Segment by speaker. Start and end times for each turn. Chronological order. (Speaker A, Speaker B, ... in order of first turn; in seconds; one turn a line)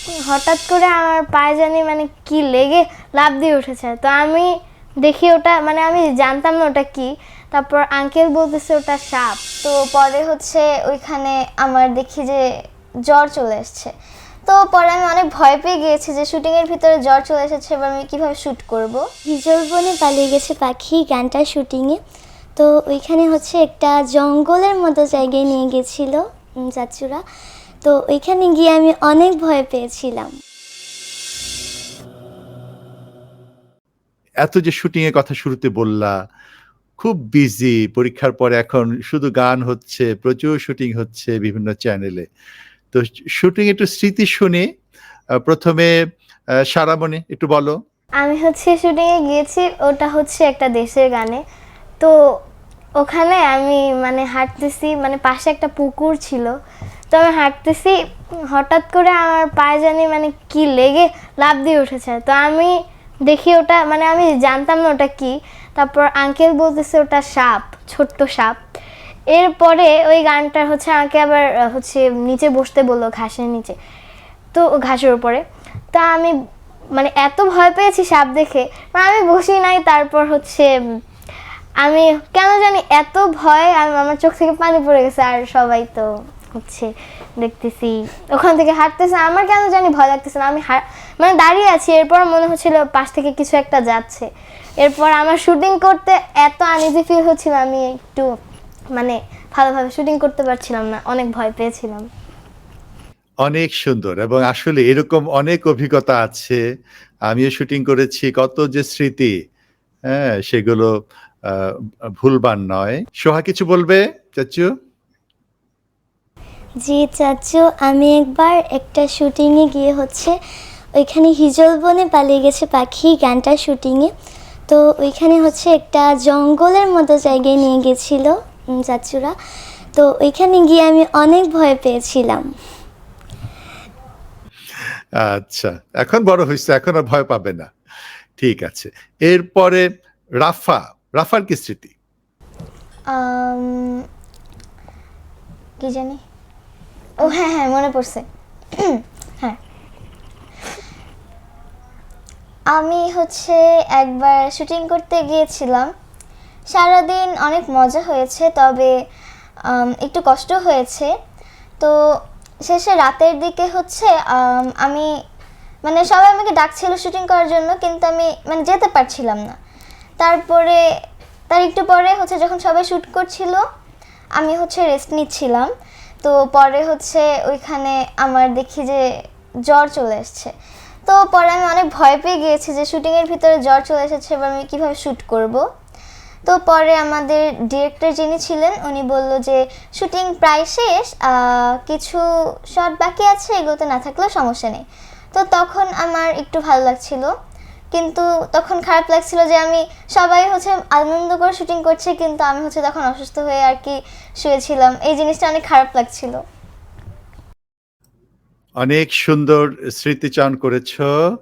Speaker A: 0.2-4.5
Speaker A: 5.0-9.4
Speaker B: 9.6-12.5
Speaker B: 13.1-13.9
Speaker B: 14.5-19.1
Speaker C: 19.3-22.0
Speaker C: 22.6-27.2
Speaker C: 27.8-30.3
Speaker D: 34.4-36.2
Speaker D: 37.0-42.3
Speaker D: 42.9-44.7
Speaker D: 45.5-45.9
Speaker D: 46.7-47.8
Speaker A: 48.2-51.4
Speaker A: 53.0-56.5
Speaker A: 57.1-58.0
Speaker A: 58.5-68.6
Speaker A: 69.3-73.8
Speaker A: 74.5-76.3
Speaker A: 77.0-80.7
Speaker A: 81.8-94.3
Speaker A: 94.8-98.3
Speaker A: 99.0-102.1
Speaker D: 103.4-106.6
Speaker D: 107.3-109.3
Speaker D: 110.1-110.9
Speaker D: 111.5-114.7
Speaker C: 116.8-120.3
Speaker C: 121.0-124.1
Speaker C: 124.7-129.3
Speaker C: 129.9-132.5
Speaker D: 135.2-137.7
Speaker D: 138.4-139.9
Speaker D: 140.4-141.9
Speaker B: 143.1-144.0
Speaker B: 145.8-146.2
Speaker B: 147.2-148.2
Speaker B: 148.8-149.6
Speaker B: 152.7-155.9
Speaker B: 156.7-158.9
Speaker B: 159.7-161.1
Speaker B: 162.7-165.1
Speaker B: 165.8-169.6
Speaker B: 170.2-170.8
Speaker B: 171.5-173.6
Speaker B: 174.4-175.7
Speaker B: 176.2-179.1
Speaker B: 179.7-180.5
Speaker B: 181.1-185.6
Speaker B: 186.5-197.3
Speaker B: 197.9-206.4
Speaker D: 208.8-211.1